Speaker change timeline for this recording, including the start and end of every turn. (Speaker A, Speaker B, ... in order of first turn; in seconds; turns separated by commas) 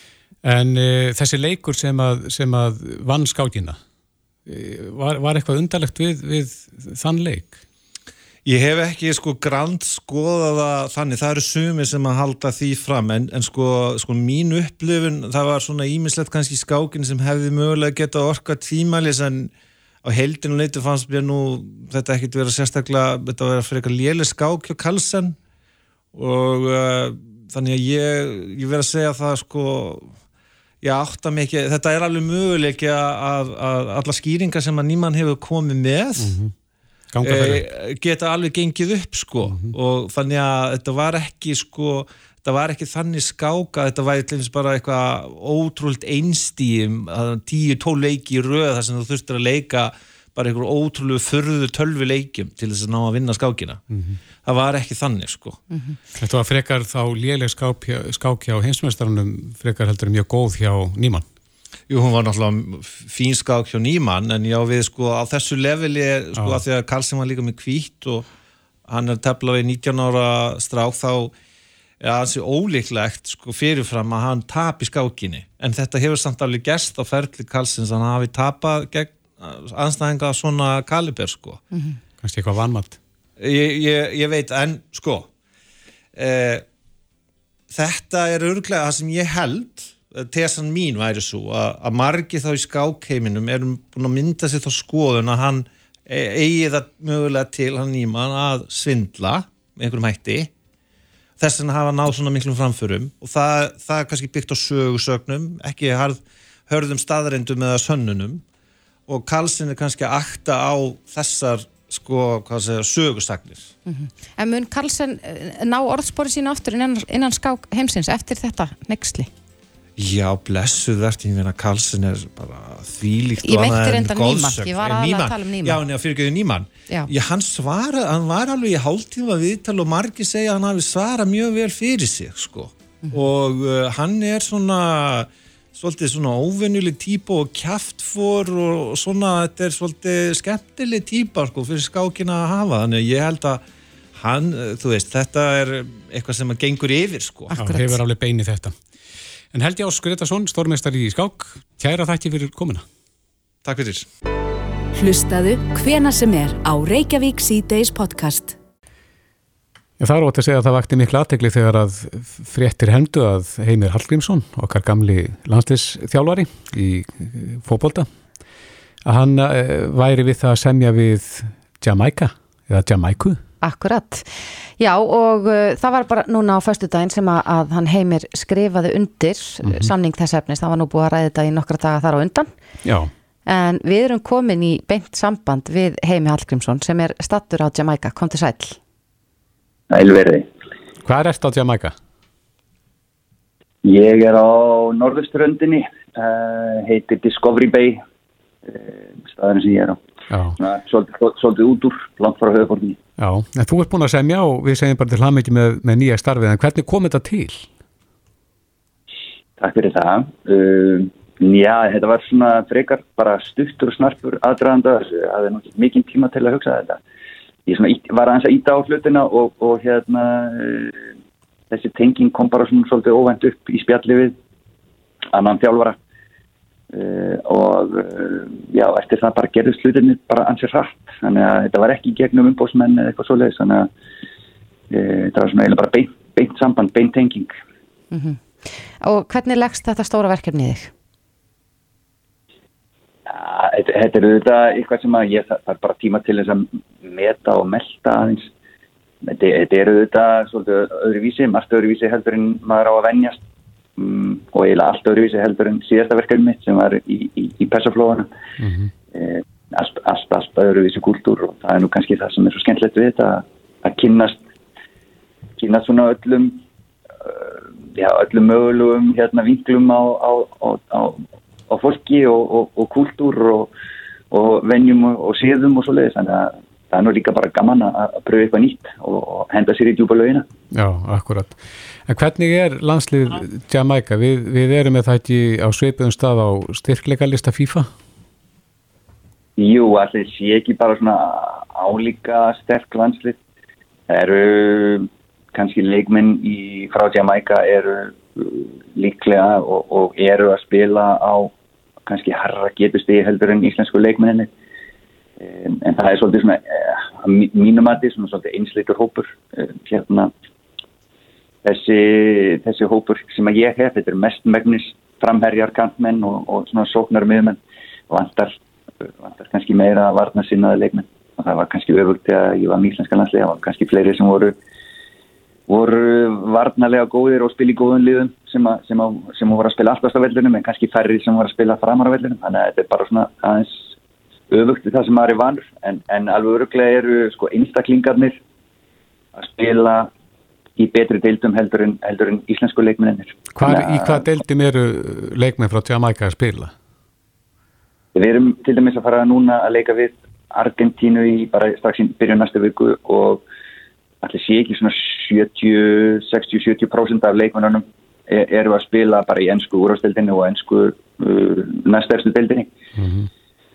Speaker A: 0.4-3.8, Speaker A: 4.5-7.6, Speaker B: 8.4-19.5, Speaker B: 20.0-25.4, Speaker B: 26.1-30.1, Speaker B: 30.8-36.4, Speaker A: 36.2-36.5, Speaker A: 37.1-37.6, Speaker B: 37.2-53.8, Speaker A: 39.5-39.7, Speaker A: 53.9-54.2, Speaker B: 54.4-55.6, Speaker C: 55.7-56.0, Speaker A: 56.2-61.2, Speaker B: 61.9-68.2, Speaker B: 68.9-71.3, Speaker B: 72.0-81.6, Speaker C: 81.7-82.0, Speaker A: 82.2-83.0, Speaker B: 83.4-85.3, Speaker B: 86.1-86.6, Speaker B: 87.7-100.5, Speaker B: 101.4-108.4, Speaker B: 109.1-113.7, Speaker C: 113.8-119.3, Speaker B: 120.0-143.6, Speaker C: 123.4-125.8, Speaker B: 144.1-147.5, Speaker C: 147.5-148.0, Speaker A: 147.6-148.7, Speaker A: 149.5-152.8, Speaker B: 153.6-154.1, Speaker D: 154.9-158.6, Speaker A: 160.0-168.1, Speaker A: 169.0-173.4, Speaker C: 173.6-182.5, Speaker A: 179.6-179.9, Speaker A: 182.8-183.1, Speaker C: 183.4-188.8, Speaker E: 189.9-190.5, Speaker A: 191.0-191.9, Speaker E: 193.8-198.0, Speaker E: 198.7-200.0, Speaker A: 200.3-200.6, Speaker E: 200.6-203.0, Speaker A: 203.2-207.7, Speaker E: 209.6-217.0, Speaker E: 217.7-221.0, Speaker E: 221.7-224.3, Speaker E: 225.3-226.0, Speaker E: 226.9-233.9, Speaker E: 234.9-237.6, Speaker C: 238.1-238.4, Speaker C: 239.0-240.9, Speaker E: 243.3-248.5, Speaker E: 249.2-253.4, Speaker E: 254.0-258.3, Speaker A: 258.6-258.9, Speaker E: 259.1-264.4, Speaker E: 265.6-266.6, Speaker E: 267.2-273.7, Speaker E: 274.3-280.5, Speaker A: 280.7-287.9, Speaker E: 289.6-293.4, Speaker E: 294.1-301.5, Speaker E: 302.1-304.5, Speaker E: 305.4-310.3, Speaker E: 311.6-318.6, Speaker E: 319.2-324.6, Speaker E: 325.7-333.9, Speaker E: 334.5-338.4, Speaker E: 339.4-340.1, Speaker E: 340.8-344.2, Speaker A: 343.5-346.7, Speaker E: 348.1-353.4, Speaker E: 354.2-362.7, Speaker A: 363.0-363.3